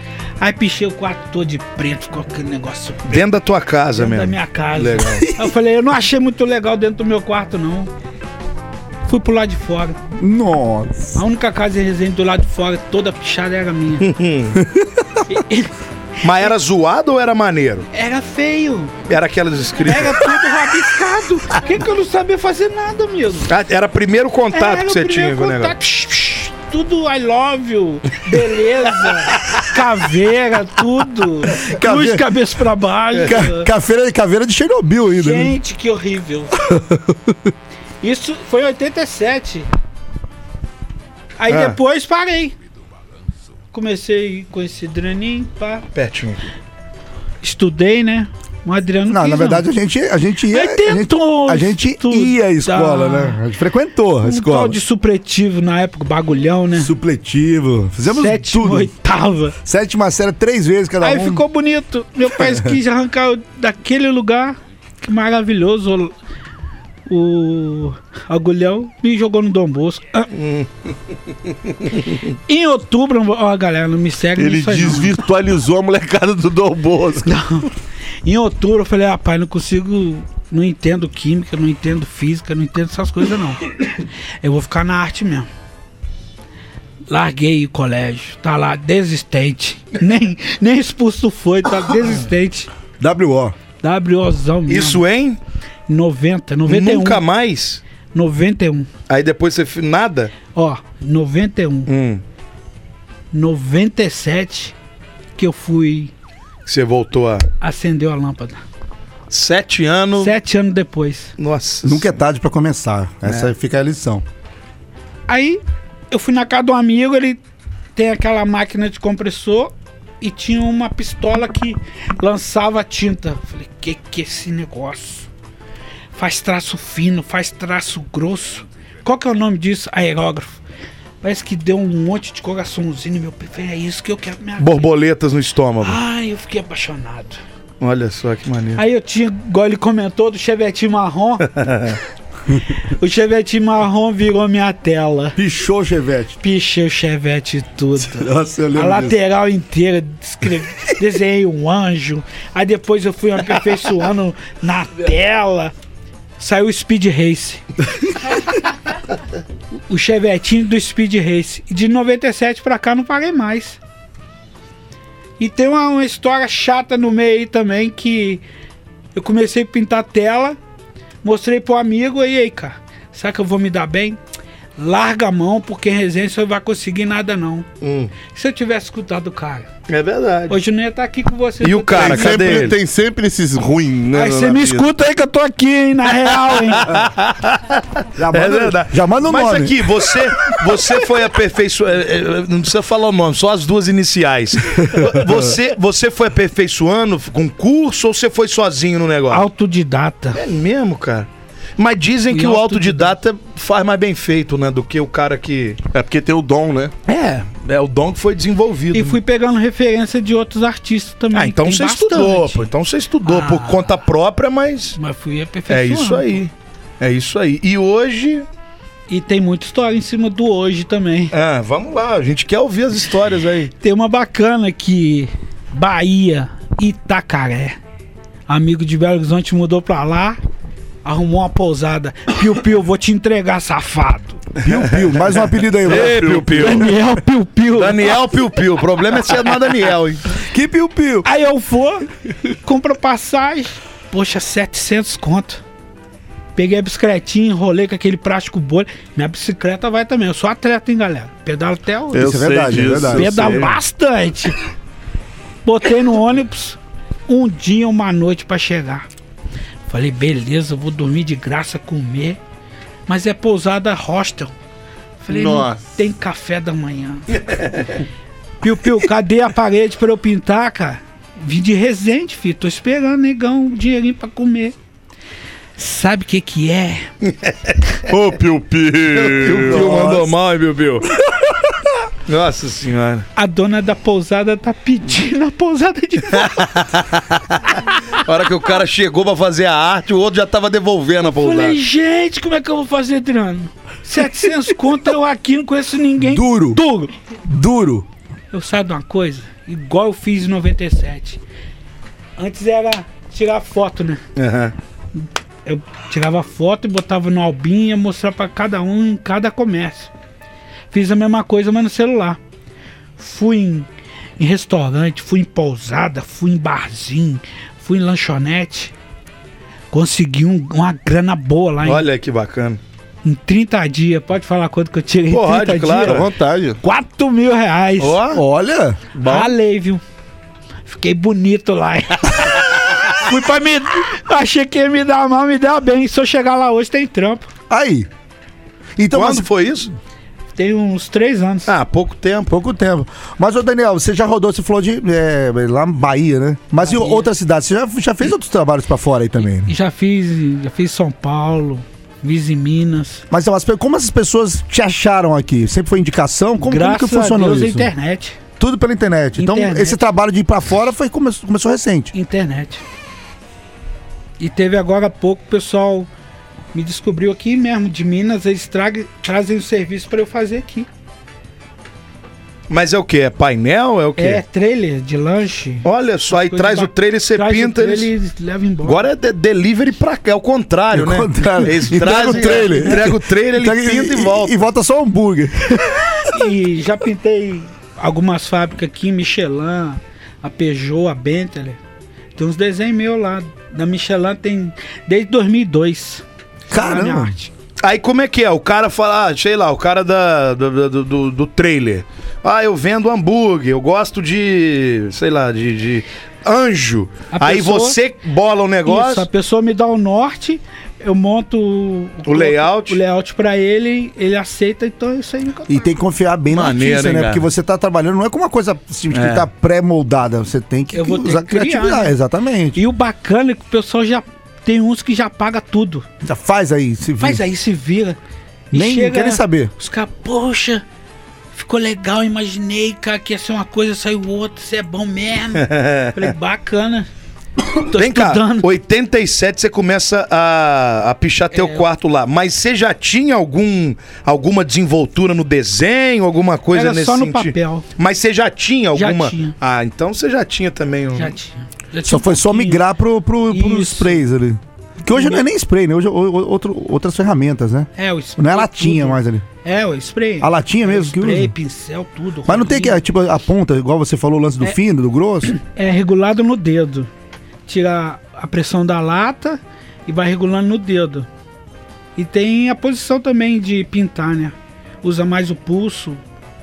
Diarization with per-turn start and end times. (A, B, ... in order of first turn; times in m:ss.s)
0:00.4-0:03.2 A
0:03.1-0:05.3 B
0:04.0-0:07.9 A
0:09.0-0:10.0 A
0:10.1-0:11.2 C
0:11.1-0:14.1 A
0:14.0-0:14.6 B
0:14.6-0:15.2 C
0:15.3-0:15.7 A
0:16.2-0:17.9 B
0:17.9-0:19.1 A
0:19.1-0:20.4 B
0:19.8-0:23.5 A
0:23.5-0:25.7 B
0:24.5-0:33.7 A
0:31.6-0:32.2 C
0:33.2-0:35.5 C
0:35.1-0:36.5 A
0:36.6-0:37.3 C
0:38.0-0:39.7 A
0:41.4-0:42.5 A
0:41.5-0:41.8 B
0:43.7-0:45.8 A
0:45.9-0:46.5 B
0:47.4-0:49.7 A
0:49.1-0:54.8 C
0:50.5-0:53.4 A
0:54.2-0:56.9 A
0:56.8-0:58.9 C
0:58.0-0:59.5 A
0:59.6-1:01.4 C
1:01.0-1:06.1 A
1:02.4-1:02.7 C
1:07.1-1:10.3 A
1:10.3-1:10.7 B
1:12.5-1:15.1 A
1:14.4-1:17.3 D
1:17.2-1:17.7 A
1:18.2-1:23.7 A
1:24.4-1:25.5 A
1:27.1-1:32.7 A
1:33.0-1:33.5 C
1:33.8-1:35.0 A
1:34.7-1:35.4 B
1:35.9-1:37.2 A
1:36.7-1:37.8 B
1:38.1-1:38.9 A
1:39.1-1:40.3 B
1:40.5-1:41.9 A
1:41.9-1:42.2 B
1:43.3-1:44.7 A
1:45.4-1:46.1 A
1:46.6-1:47.4 B
1:47.6-1:48.6 A
1:49.3-1:50.3 B
1:50.2-1:51.3 A
1:51.4-1:52.2 B
1:51.8-1:54.2 C
1:53.2-1:53.5 B
1:55.3-1:57.4 A
1:58.0-2:05.3 A
2:06.1-2:10.6 A
2:11.2-2:14.9 A
2:14.6-2:16.0 B
2:15.8-2:17.4 A
2:17.8-2:18.8 B
2:18.8-2:21.5 A
2:21.6-2:22.0 B
2:22.8-2:25.4 A
2:25.4-2:26.4 C
2:26.4-2:35.7 A
2:28.0-2:29.2 C
2:36.4-2:37.6 A
2:39.9-2:43.8 A
2:45.4-2:48.4 A
2:49.1-2:50.6 A
2:51.2-2:54.2 A
2:54.8-2:57.7 A
2:57.8-2:58.1 B
2:58.2-2:59.7 A
2:59.9-3:00.6 B
3:00.5-3:02.6 A
3:01.6-3:02.8 B
3:02.0-3:04.8 D
3:04.1-3:07.0 A
3:06.6-3:19.4 B
3:08.2-3:10.0 C
3:19.3-3:20.4 A
3:20.3-3:25.8 B
3:22.3-3:23.1 A
3:25.9-3:26.9 D
3:27.1-3:29.2 B
3:28.9-3:32.7 A
3:31.3-3:35.0 B
3:33.2-3:33.9 A
3:35.0-3:36.4 A
3:35.7-3:38.4 B
3:39.1-3:41.3 A
3:41.3-3:43.7 B
3:43.8-3:47.8 A
3:48.5-3:50.4 A
3:51.0-3:54.4 A
3:54.6-3:56.4 C
3:55.8-3:56.9 B
3:55.8-3:56.9 D
3:56.6-3:58.1 A
3:57.7-4:00.2 B
4:00.4-4:01.2 C
4:01.2-4:02.0 A
4:02.6-4:05.6 A
4:06.6-4:12.4 A
4:12.1-4:13.7 C
4:12.1-4:13.8 D
4:13.0-4:14.6 A
4:15.6-4:19.1 A
4:19.9-4:22.4 A
4:23.1-4:24.5 A
4:25.2-4:27.4 A
4:25.3-4:25.8 D
4:28.6-4:34.7 A
4:35.8-4:37.1 A
4:37.2-4:37.7 B
4:38.1-4:40.1 D
4:39.1-4:41.1 B
4:39.6-4:40.3 C
4:42.3-4:43.2 B
4:43.4-4:46.6 A
4:46.3-4:51.8 B
4:51.3-4:57.1 A
4:56.2-4:56.8 C
4:57.4-4:58.1 C
4:58.5-5:01.4 A
5:02.4-5:04.2 A
5:04.4-5:04.7 B
5:05.2-5:10.1 A
5:10.9-5:12.4 A
5:13.2-5:13.9 A
5:14.4-5:18.9 A
5:19.9-5:22.0 A
5:21.8-5:22.8 B
5:23.2-5:26.2 A
5:25.3-5:26.3 B
5:26.0-5:26.8 D
5:26.8-5:28.4 A
5:28.0-5:28.4 B
5:28.3-5:29.0 C
5:29.1-5:29.5 B
5:29.2-5:30.0 A
5:30.8-5:37.5 A
5:37.7-5:38.1 C
5:39.0-5:39.4 C
5:39.1-5:39.9 B
5:40.5-5:41.7 A
5:41.7-5:42.5 B
5:42.5-5:49.7 C
5:46.8-5:47.3 A
5:49.6-5:53.2 A
5:53.3-5:57.9 C
5:56.6-5:58.4 A
5:58.6-6:02.1 C
5:59.4-6:00.0 A
6:02.1-6:02.8 A
6:04.4-6:06.1 A
6:06.7-6:10.9 A
6:12.7-6:14.4 B
6:14.2-6:19.0 A
6:15.8-6:18.1 B
6:18.8-6:24.6 B
6:20.9-6:26.4 C
6:22.2-6:22.8 A
6:26.2-6:31.8 A
6:32.4-6:37.5 A
6:36.7-6:37.3 C
6:37.8-6:49.2 B
6:47.3-6:48.0 A
6:48.8-6:55.9 A
6:52.2-6:53.0 B
6:55.7-7:02.8 C
6:56.5-6:57.4 B
6:59.1-6:59.4 B
7:00.9-7:02.1 A
7:02.7-7:06.0 A
7:06.2-7:07.4 C
7:07.2-7:08.2 A
7:08.7-7:09.7 C
7:08.7-7:10.8 A
7:11.5-7:17.1 A
7:15.5-7:16.3 B
7:17.8-7:18.7 A
7:17.9-7:31.3 B
7:21.5-7:21.8 A
7:26.7-7:27.8 A
7:29.0-7:29.5 A
7:31.2-7:32.8 A
7:32.0-7:39.4 C
7:33.5-7:34.2 A
7:35.1-7:35.4 A
7:38.0-7:43.0 A
7:40.4-7:41.5 C
7:42.4-7:45.5 C
7:45.4-7:47.1 A
7:47.7-7:51.3 A
7:52.2-7:56.2 A